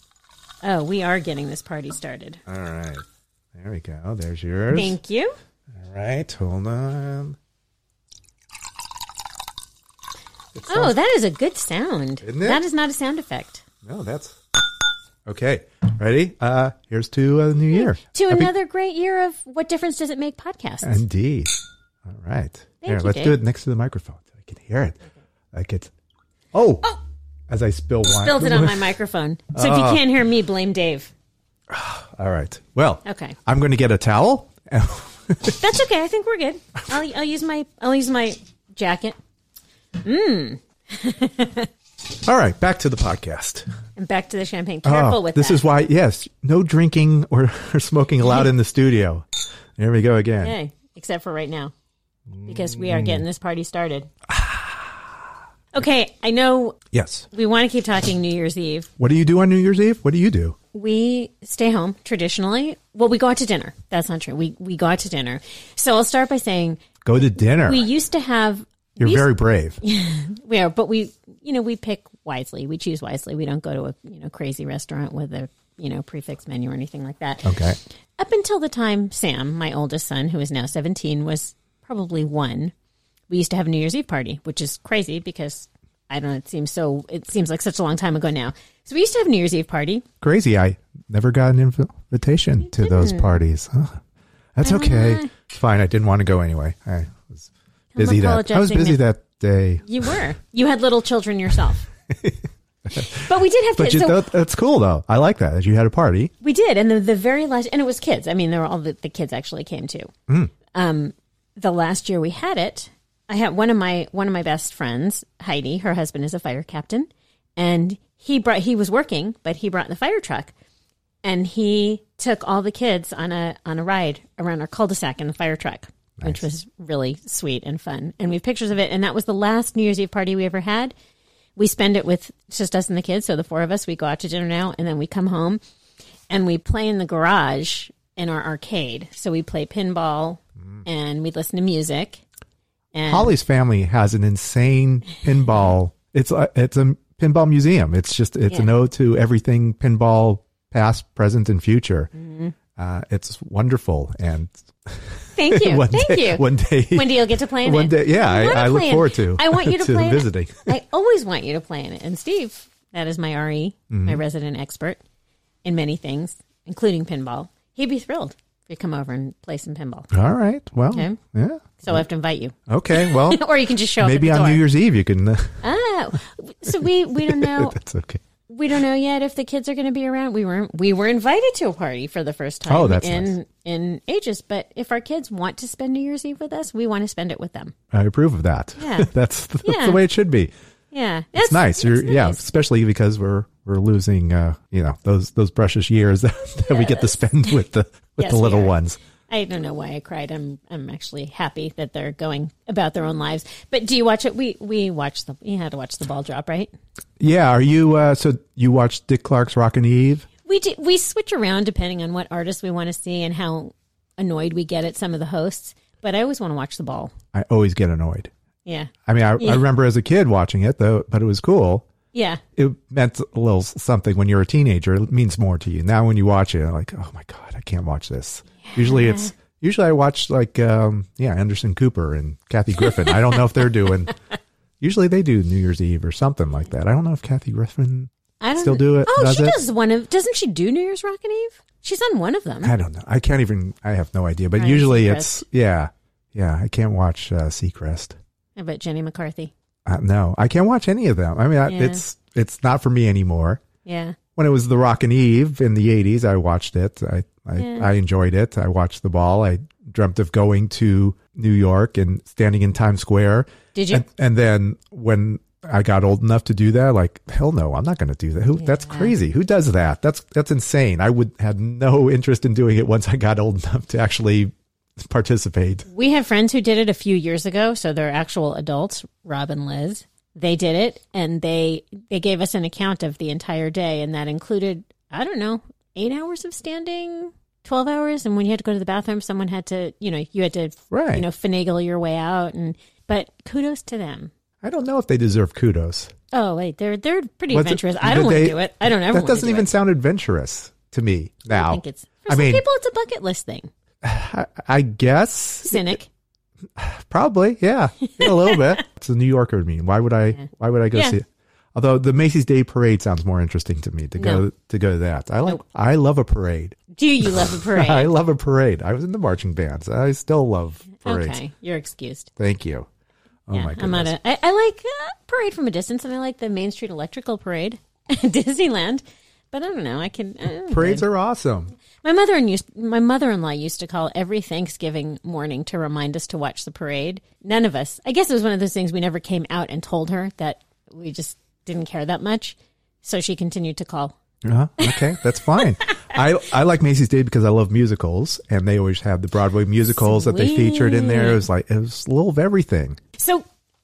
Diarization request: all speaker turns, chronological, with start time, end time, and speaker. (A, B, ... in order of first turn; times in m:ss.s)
0:00.6-0:02.4 A
0:02.5-0:03.0 B
0:03.5-0:05.0 B
0:04.7-0:05.3 A
0:05.8-0:07.4 B
0:10.5-0:10.9 B
0:10.7-0:13.6 A
0:12.2-0:12.6 B
0:13.8-0:14.4 B
0:15.2-0:18.5 B
0:17.7-0:21.0 A
0:20.8-0:21.5 B
0:22.1-0:25.0 B
0:22.8-0:23.4 A
0:25.5-0:25.9 B
0:26.5-0:26.8 B
0:27.5-0:28.8 B
0:28.2-0:31.1 A
0:29.5-0:30.0 B
0:31.7-0:35.6 B
0:33.0-0:33.4 A
0:35.6-0:39.2 A
0:40.0-0:41.7 A
0:42.2-0:43.7 B
0:44.0-0:45.6 A
0:44.8-0:49.2 B
0:49.8-0:50.5 B
0:50.4-0:51.7 A
0:52.4-0:54.1 A
0:54.3-0:55.0 B
0:55.7-0:56.8 A
0:56.9-0:57.3 B
0:57.3-0:58.9 A
0:59.0-1:00.6 B
1:00.7-1:09.3 A
1:07.0-1:07.8 B
1:09.0-1:09.8 B
1:09.8-1:17.4 A
1:17.4-1:17.8 B
1:18.2-1:22.7 A
1:23.3-1:30.0 A
1:30.2-1:34.0 B
1:32.7-1:33.4 A
1:34.5-1:39.9 B
1:34.6-1:35.3 A
1:37.9-1:39.0 A
1:39.8-1:41.8 A
1:42.1-1:42.4 B
1:42.9-1:43.2 B
1:43.1-1:44.2 A
1:43.8-1:46.3 B
1:46.4-1:50.1 A
1:50.7-2:00.5 A
2:01.2-2:10.9 A
2:11.6-2:15.6 A
2:16.3-2:22.2 A
2:22.9-2:23.4 A
2:23.1-2:32.1 B
2:32.1-2:32.5 A
2:32.8-2:40.7 B
2:35.3-2:45.0 A
2:43.9-2:44.2 B
2:45.6-2:50.1 A
2:50.1-2:52.0 B
2:51.8-2:54.6 A
2:52.7-2:53.4 B
2:54.0-2:55.6 B
2:55.6-2:57.8 A
2:56.7-2:58.2 B
2:58.5-3:07.7 A
3:02.7-3:03.3 B
3:07.9-3:10.5 B
3:08.8-3:09.1 A
3:09.6-3:10.0 A
3:10.9-3:12.4 A
3:11.3-3:19.0 B
3:16.6-3:17.2 A
3:18.2-3:18.8 A
3:19.3-3:26.7 A
3:27.2-3:30.3 B
3:30.4-3:37.1 A
3:37.3-3:38.3 B
3:38.6-3:39.6 A
3:39.1-3:41.8 B
3:42.1-3:42.4 A
3:42.6-3:54.1 B
3:48.6-3:49.3 A
3:54.8-3:59.6 B
3:58.4-4:02.7 A
4:02.6-4:08.2 B
4:04.6-4:05.4 A
4:08.6-4:09.5 A
4:09.8-4:13.6 B
4:11.6-4:12.0 A
4:13.8-4:14.2 A
4:14.4-4:35.9 B
4:17.6-4:17.9 A
4:23.7-4:24.0 A
4:28.6-4:29.1 A
4:35.9-4:54.3 A
4:50.9-4:51.2 B
4:54.6-4:56.1 B
4:56.3-4:59.7 A
4:57.5-5:02.6 B
5:01.5-5:03.7 A
5:04.0-5:06.0 B
5:05.6-5:06.1 A
5:06.8-5:21.4 B
5:08.1-5:08.7 A
5:10.3-5:11.2 A
5:14.2-5:14.4 A
5:16.9-5:18.1 A
5:21.0-5:22.3 A
5:22.4-5:22.9 B
5:23.5-5:24.1 B
5:23.5-5:31.1 A
5:30.7-5:31.7 B
5:32.0-5:44.1 A
5:44.4-5:53.0 B
5:49.9-5:51.4 A
5:53.2-5:53.4 A